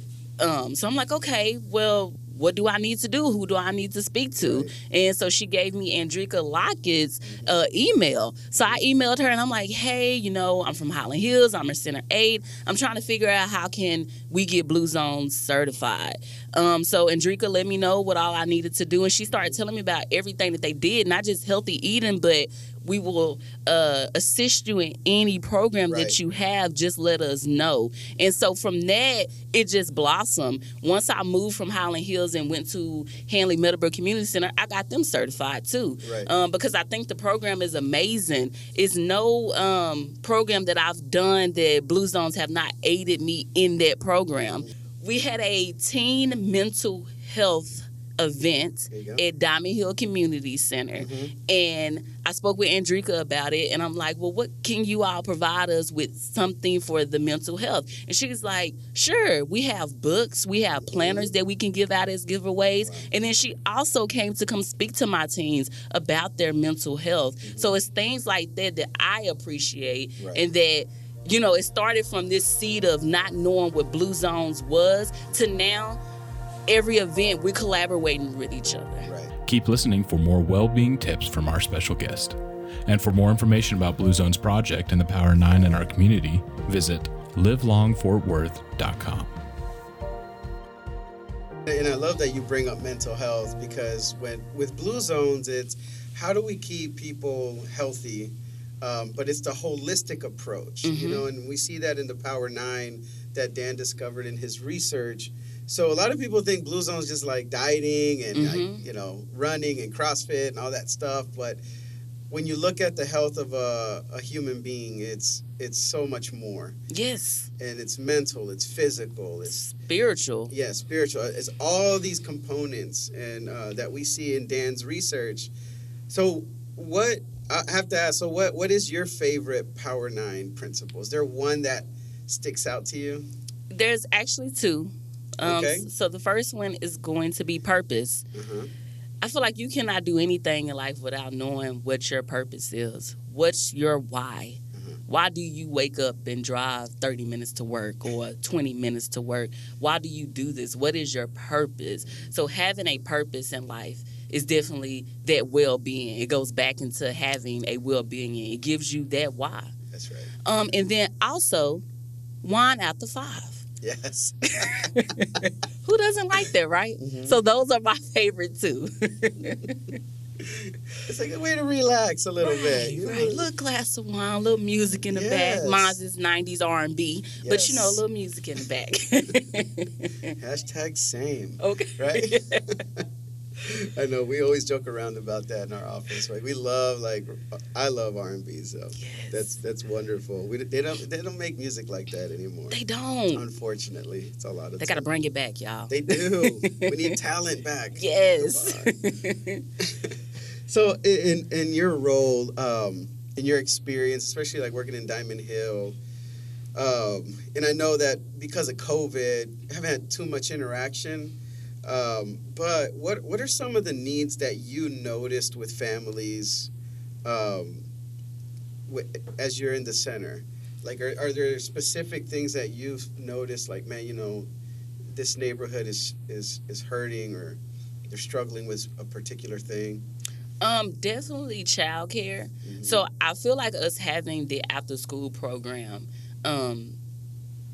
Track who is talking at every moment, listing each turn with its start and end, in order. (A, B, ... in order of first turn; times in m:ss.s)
0:00.4-1:16.0 A
0:04.4-0:04.7 B
0:07.2-0:07.6 B
0:25.9-0:26.2 B
0:36.0-0:36.3 B
0:48.9-0:49.2 B
0:51.0-0:51.3 B
1:00.8-1:01.3 B
1:02.8-1:03.1 B
1:07.4-1:07.7 B
1:10.2-1:10.4 B
1:16.7-1:19.1 A
1:19.0-1:19.3 B
1:19.4-1:29.3 C
1:31.6-1:51.6 B
1:40.8-1:41.2 A
1:48.3-1:48.8 A
1:52.3-1:56.7 B
1:56.9-1:57.5 A
1:57.6-1:59.6 B
1:59.5-2:00.5 A
2:00.5-2:05.5 B
2:06.1-2:13.2 B
2:13.7-2:18.2 A
2:15.4-2:15.9 B
2:18.3-2:18.7 B
2:19.2-2:39.7 A
2:32.0-2:32.3 B
2:39.9-2:40.3 B
2:40.4-2:41.8 A
2:42.4-2:43.6 A
2:43.8-2:44.9 B
2:44.5-2:50.0 A
2:47.0-2:47.4 B
2:50.4-2:53.5 B
2:52.4-3:00.3 A
2:55.1-2:56.0 B
2:57.4-2:58.0 B
3:00.4-3:03.0 B
3:01.6-3:02.6 A
3:03.6-3:12.8 B
3:09.0-3:09.5 A
3:12.7-3:13.4 A
3:13.3-3:15.1 B
3:14.8-3:17.1 A
3:15.9-3:18.9 B
3:18.0-3:19.7 A
3:19.8-3:26.0 B
3:26.8-3:36.7 B
3:37.2-3:37.9 B
3:38.9-3:44.5 B
3:45.1-3:50.0 B
3:50.6-3:57.0 A
3:52.6-3:53.0 B